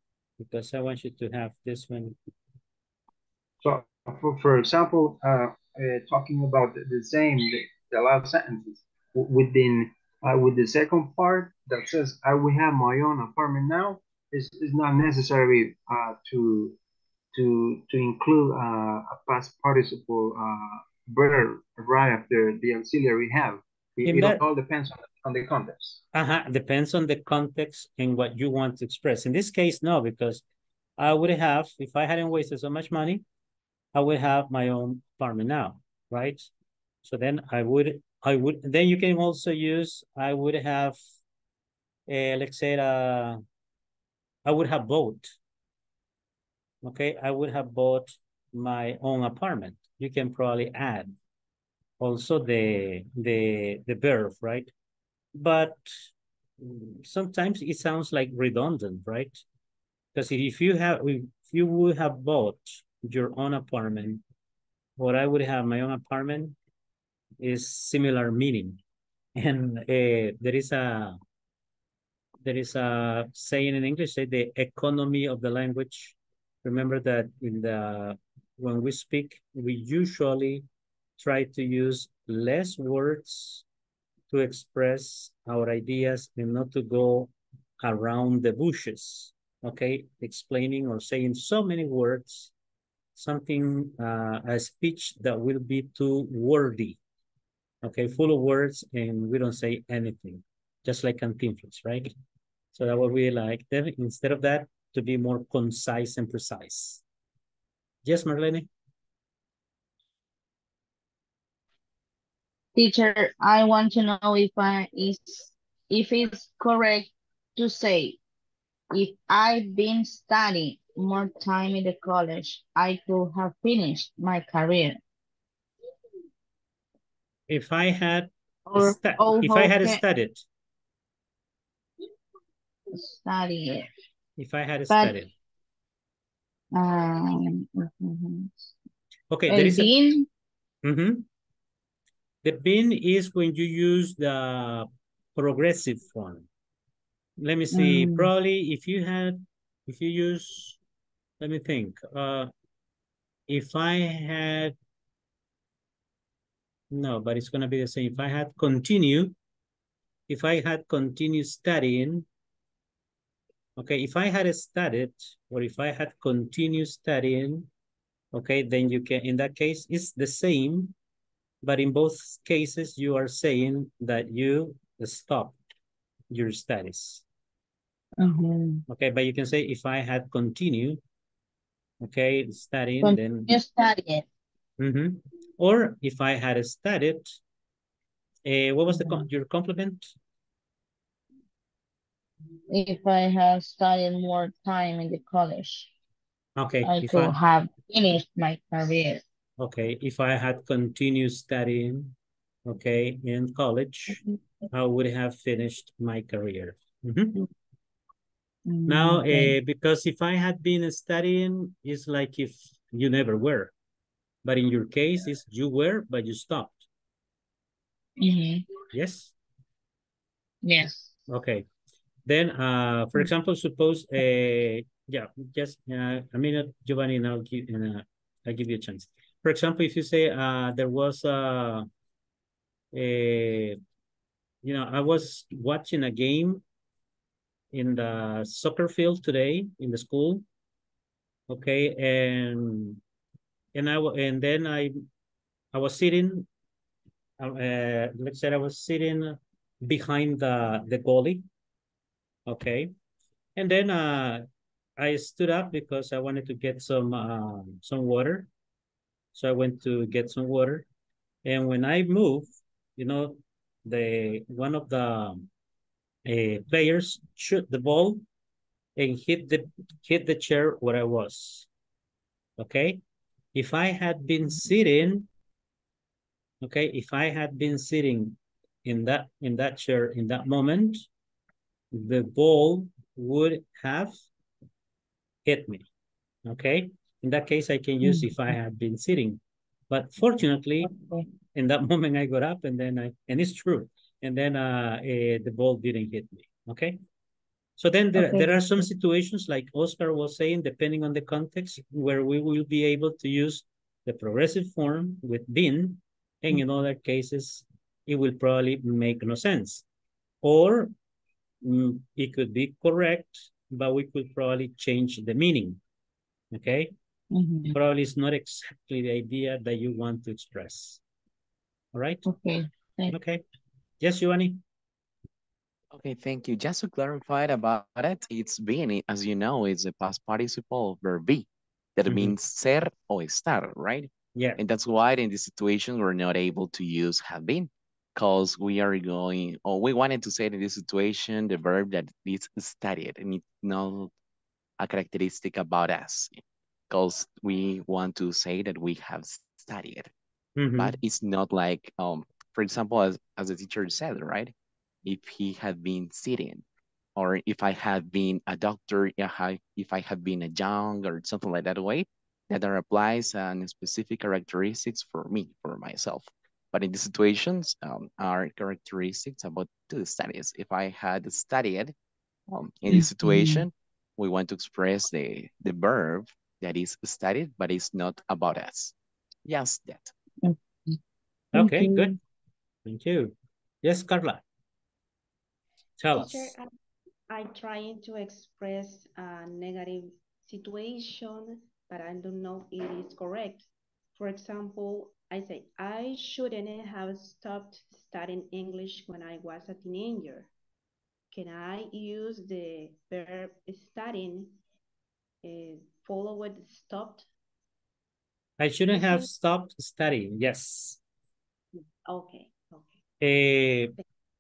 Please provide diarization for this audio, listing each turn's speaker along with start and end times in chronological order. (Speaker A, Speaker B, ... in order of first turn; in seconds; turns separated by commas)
Speaker A: 0.4-2.2, Speaker B: 3.6-16.8, Speaker B: 17.3-26.0, Speaker A: 24.0-24.4, Speaker A: 26.1-30.4, Speaker A: 31.0-33.2, Speaker A: 33.9-36.5, Speaker A: 37.0-41.0, Speaker A: 42.1-43.4, Speaker A: 44.5-45.3, Speaker A: 46.8-51.1, Speaker A: 52.0-54.7, Speaker A: 55.4-55.9, Speaker A: 56.6-59.4, Speaker A: 60.1-64.2, Speaker A: 65.0-66.5, Speaker A: 67.4-68.8, Speaker A: 69.4-71.2, Speaker A: 72.4-80.7, Speaker A: 81.2-83.6, Speaker A: 84.3-92.5, Speaker A: 93.2-97.0, Speaker A: 97.8-102.1, Speaker A: 102.7-107.0, Speaker A: 108.0-108.7, Speaker C: 112.8-118.2, Speaker C: 118.9-125.0, Speaker A: 127.5-130.4, Speaker C: 128.7-130.0, Speaker C: 132.9-133.9, Speaker A: 134.4-135.3, Speaker C: 134.9-135.2, Speaker C: 136.8-138.5, Speaker A: 139.3-139.9, Speaker C: 139.5-140.3, Speaker A: 140.8-141.3, Speaker A: 142.4-146.5, Speaker A: 147.4-150.8, Speaker C: 147.7-148.3, Speaker A: 151.4-152.5, Speaker A: 153.5-154.8, Speaker A: 156.9-159.3, Speaker A: 160.3-162.3, Speaker A: 163.8-167.7, Speaker A: 168.3-170.9, Speaker A: 171.6-175.6, Speaker A: 176.3-177.2, Speaker C: 178.2-178.8, Speaker A: 178.9-181.0, Speaker A: 182.0-183.6, Speaker C: 183.0-184.3, Speaker A: 184.8-187.4, Speaker A: 188.5-190.1, Speaker C: 188.9-189.3, Speaker C: 192.7-195.9, Speaker A: 196.6-197.4, Speaker C: 196.8-199.2, Speaker A: 199.6-202.2, Speaker A: 202.7-204.2, Speaker A: 204.7-207.4, Speaker C: 208.7-209.6, Speaker A: 208.9-213.7, Speaker A: 214.4-216.9, Speaker C: 218.2-218.6, Speaker A: 218.9-219.3, Speaker C: 220.6-221.1, Speaker A: 221.3-221.7, Speaker A: 222.3-231.9, Speaker A: 232.9-233.8, Speaker A: 234.6-236.6, Speaker A: 237.7-240.4, Speaker A: 241.5-243.0, Speaker A: 243.8-245.0, Speaker A: 245.7-246.5, Speaker A: 247.4-251.4, Speaker A: 252.5-252.9, Speaker A: 253.6-254.4, Speaker A: 255.0-258.5, Speaker A: 259.3-260.9, Speaker A: 261.4-265.5, Speaker A: 266.3-268.2, Speaker A: 269.0-271.7, Speaker A: 272.6-273.0, Speaker A: 273.5-275.3, Speaker A: 276.6-281.1, Speaker A: 281.9-284.2, Speaker A: 285.4-285.9, Speaker A: 286.5-290.9, Speaker C: 288.0-288.4, Speaker C: 290.8-291.3, Speaker A: 291.5-297.0, Speaker A: 297.8-309.9, Speaker C: 298.1-298.6, Speaker A: 310.4-310.9, Speaker A: 311.6-315.8, Speaker A: 316.5-316.9, Speaker C: 317.3-317.8, Speaker A: 317.7-321.0, Speaker A: 321.9-322.2, Speaker C: 322.3-323.2, Speaker A: 323.1-323.4, Speaker A: 324.0-324.6, Speaker D: 325.9-344.1, Speaker A: 332.1-332.4, Speaker D: 344.8-350.1, Speaker A: 350.6-351.0, Speaker D: 350.8-354.5, Speaker D: 355.0-356.6, Speaker D: 357.2-371.9, Speaker D: 372.5-378.9, Speaker C: 372.9-373.7, Speaker D: 379.4-380.1, Speaker C: 380.4-381.0, Speaker C: 381.5-382.2, Speaker A: 381.5-382.1, Speaker A: 382.9-384.4, Speaker A: 386.0-386.5, Speaker E: 386.1-386.7, Speaker E: 387.3-400.5, Speaker E: 401.3-404.6, Speaker E: 405.4-407.3, Speaker A: 408.6-411.0, Speaker E: 408.9-409.3, Speaker E: 412.1-413.0, Speaker A: 413.2-413.9